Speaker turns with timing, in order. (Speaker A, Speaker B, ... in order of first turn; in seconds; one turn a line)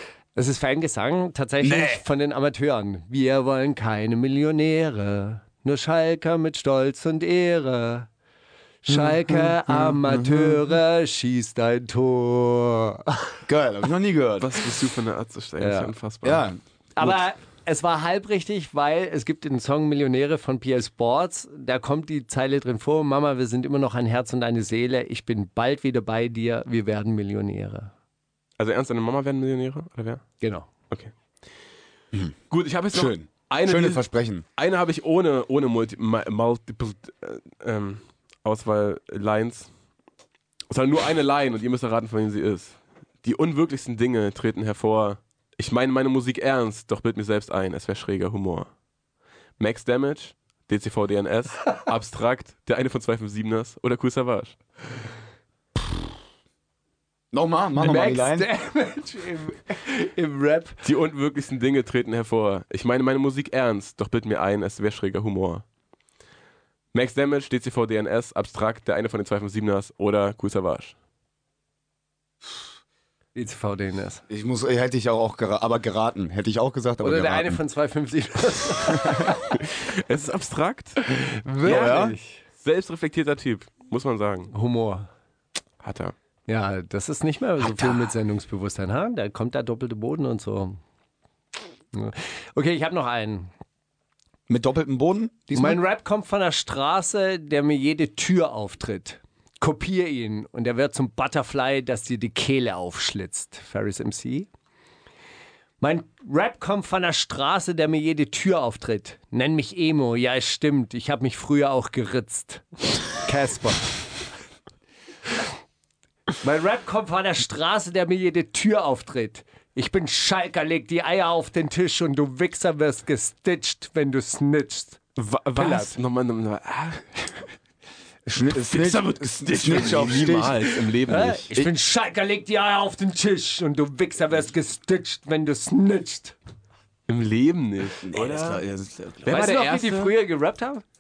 Speaker A: 0.4-8.1
Speaker B: 1.6-2.0
Speaker A: 8.8-13.1
Speaker B: 8.9-10.7
Speaker B: 13.5-14.5
Speaker C: 14.4-16.5
Speaker A: 15.6-15.9
Speaker B: 16.2-17.2
Speaker A: 17.0-27.9
Speaker C: 28.6-30.3
Speaker A: 30.4-30.7
Speaker C: 32.5-39.7
Speaker B: 32.9-34.4
Speaker C: 40.7-48.7
Speaker C: 49.6-54.6
Speaker B: 57.3-58.5
Speaker A: 57.8-60.8
Speaker C: 60.8-65.7
Speaker C: 66.9-71.0
Speaker A: 73.3-74.2
Speaker B: 74.3-77.6
Speaker A: 77.0-79.4
Speaker C: 79.6-81.0
Speaker A: 81.3-82.4
Speaker C: 81.6-82.0
Speaker B: 81.6-82.2
Speaker C: 82.6-84.5
Speaker A: 84.5-85.1
Speaker C: 85.8-86.1
Speaker A: 86.5-90.8
Speaker A: 91.9-93.5
Speaker B: 94.5-95.8
Speaker A: 95.5-104.5
Speaker A: 105.8-113.9
Speaker A: 116.4-125.0
Speaker C: 125.2-127.3
Speaker A: 125.6-126.0
Speaker B: 128.3-130.6
Speaker C: 128.7-131.5
Speaker A: 131.1-136.4
Speaker C: 137.1-138.6
Speaker B: 138.0-139.3
Speaker C: 139.2-140.2
Speaker A: 139.3-140.8